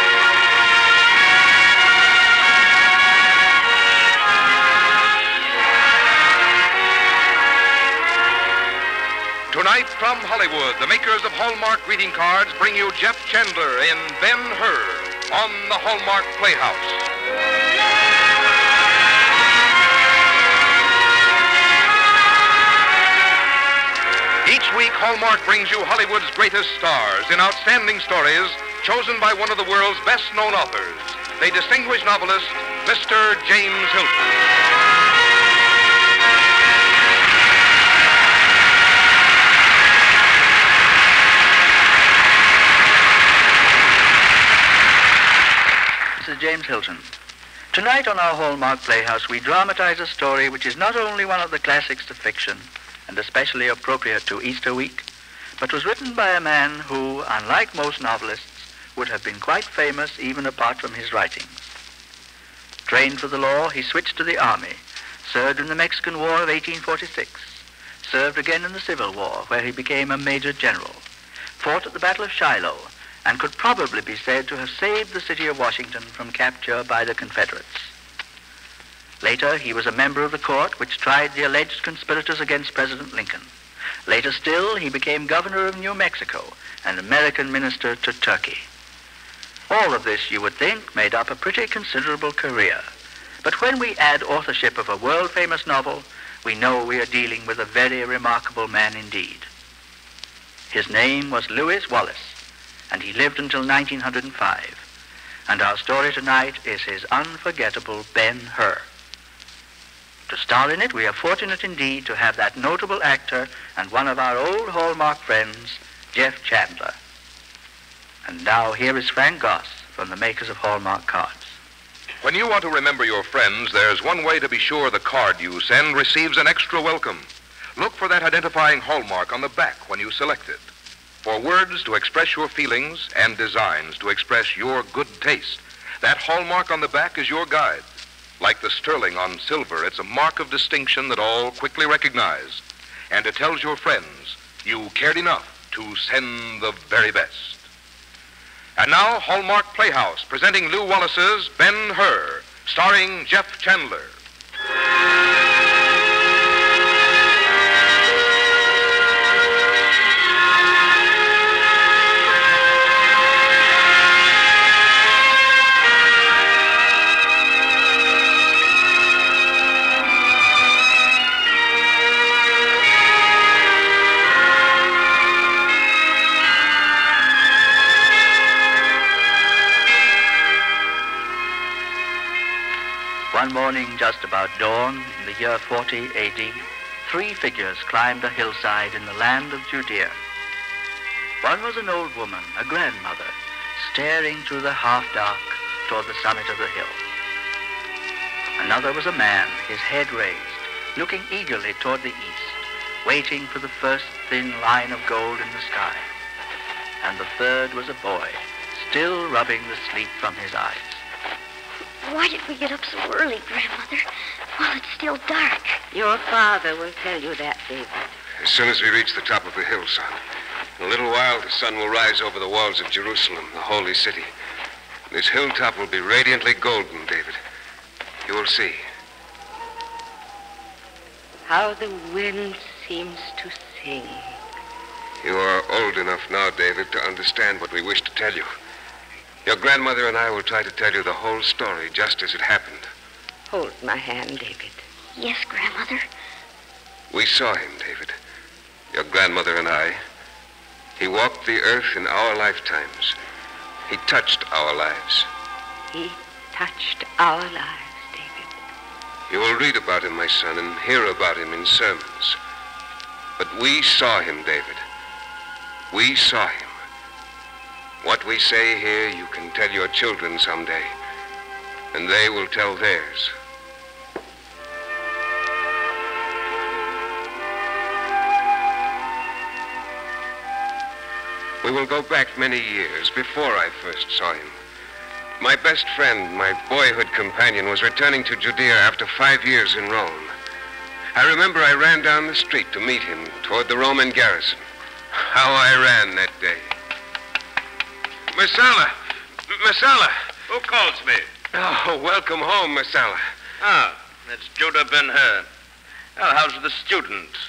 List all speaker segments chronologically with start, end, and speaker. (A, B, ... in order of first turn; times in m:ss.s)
0:09.5-0:17.1 A
0:24.4-0:34.2 A
0:46.2-0:47.1 B
0:47.7-0:55.0 B
0:55.6-1:01.6 B
1:02.9-1:11.0 B
1:11.6-1:17.9 B
1:19.2-1:23.5 B
1:24.1-1:28.7 B
1:29.7-1:32.9 B
1:33.4-1:39.5 B
1:40.7-1:42.4 B
1:42.9-1:44.8 B
1:45.5-1:48.9 B
1:50.3-1:57.0 B
1:58.2-2:01.5 B
2:02.2-2:10.6 A
2:11.2-2:17.8 A
2:18.4-2:27.6 A
2:28.8-2:34.1 A
3:03.3-3:10.2 B
3:11.4-3:17.0 B
3:18.6-3:26.1 B
3:27.0-3:31.0 B
3:32.0-3:35.8 C
3:35.9-3:38.1 D
3:38.4-3:40.2 E
3:40.8-3:44.3 E
3:45.1-3:47.4 E
3:48.2-3:48.8 E
3:51.4-3:54.4 D
3:55.2-3:58.5 E
3:59.4-4:02.9 E
4:03.5-4:04.8 D
4:05.2-4:06.0 C
4:07.1-4:08.1 E
4:08.9-4:10.0 E
4:11.0-4:13.1 E
4:13.9-4:15.3 E
4:15.9-4:18.5 D
4:19.3-4:22.4 E
4:23.4-4:24.8 E
4:25.9-4:26.8 E
4:28.0-4:30.9 E
4:31.9-4:33.3 E
4:41.6-4:44.6 E
4:45.4-4:50.3 E
4:51.1-4:56.7 E
4:58.3-4:58.9 E
4:59.5-5:00.2 E
5:00.5-5:01.3 F
5:01.5-5:03.2 E
5:03.6-5:05.4 F
5:06.2-5:07.3 F